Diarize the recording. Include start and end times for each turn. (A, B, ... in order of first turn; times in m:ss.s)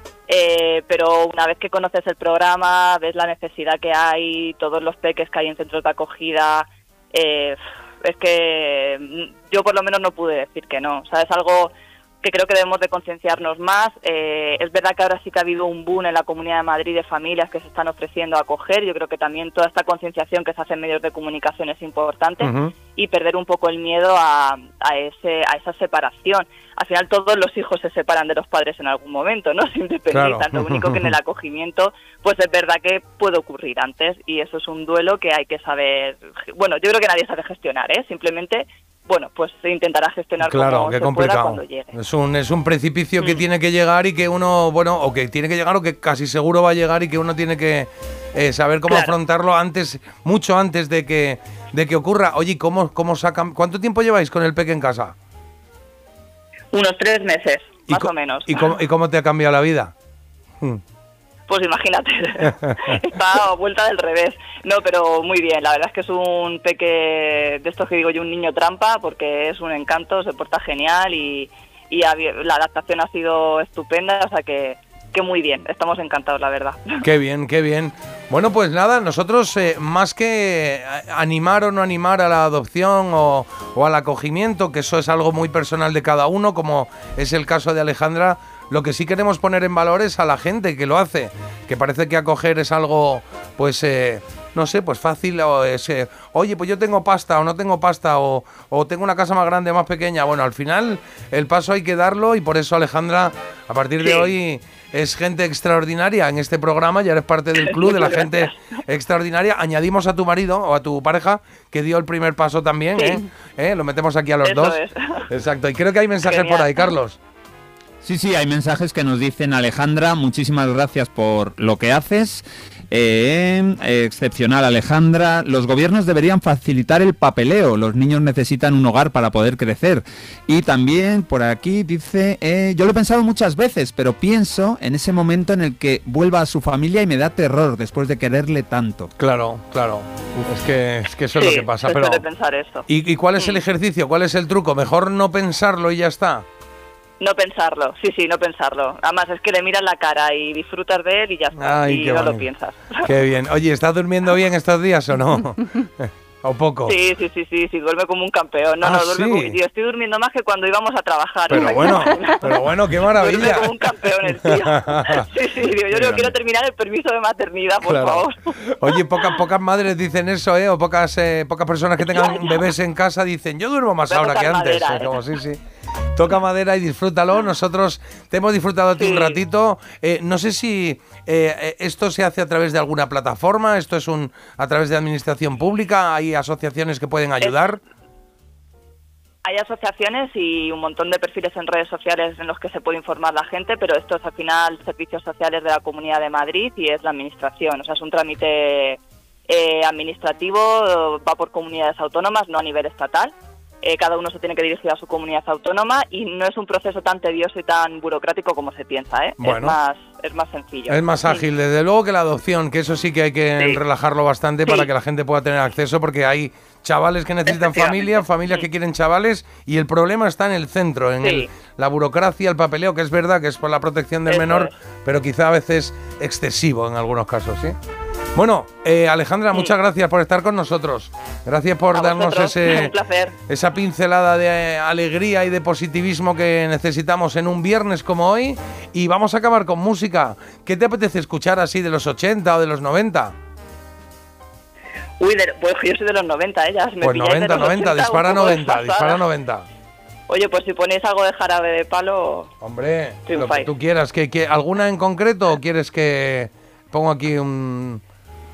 0:00.3-0:41.9 A
0:22.4-0:22.7 B
0:30.1-0:31.1 B
0:40.4-0:55.1 B
0:48.9-0:49.1 A
0:56.7-0:58.7 A
0:57.9-0:59.9 B
1:01.5-1:17.0 A
1:17.0-1:54.8 B
1:44.0-1:44.3 A
1:47.6-1:48.5 A
1:52.9-1:53.2 A
1:54.4-1:55.2 A
1:55.3-1:57.2 B
1:56.2-1:56.9 A
1:58.0-2:19.1 C
2:19.2-2:22.2 B
2:21.3-2:22.8 A
2:22.9-2:26.4 B
2:27.2-2:33.1 A
2:31.6-2:32.5 B
2:33.0-2:37.0 B
2:36.8-2:48.5 A
2:38.8-2:39.6 B
2:41.5-2:45.3 B
2:45.9-2:46.3 B
2:47.8-2:55.6 B
2:52.0-2:52.6 A
2:54.1-2:55.2 A
2:56.2-3:07.8 B
2:59.0-2:59.4 A
3:07.4-3:07.7 A
3:09.4-3:31.4 A
3:29.4-3:29.8 B
3:30.9-3:47.8 B
3:37.5-3:38.2 A
3:41.2-3:41.5 A
3:44.3-3:44.7 A
3:48.3-3:52.9 B
3:51.9-3:53.3 A
3:53.5-4:03.3 B
4:05.2-4:09.2 A
4:07.0-4:09.6 B
4:10.3-4:12.5 A
4:12.6-4:18.0 B
4:13.3-4:13.7 A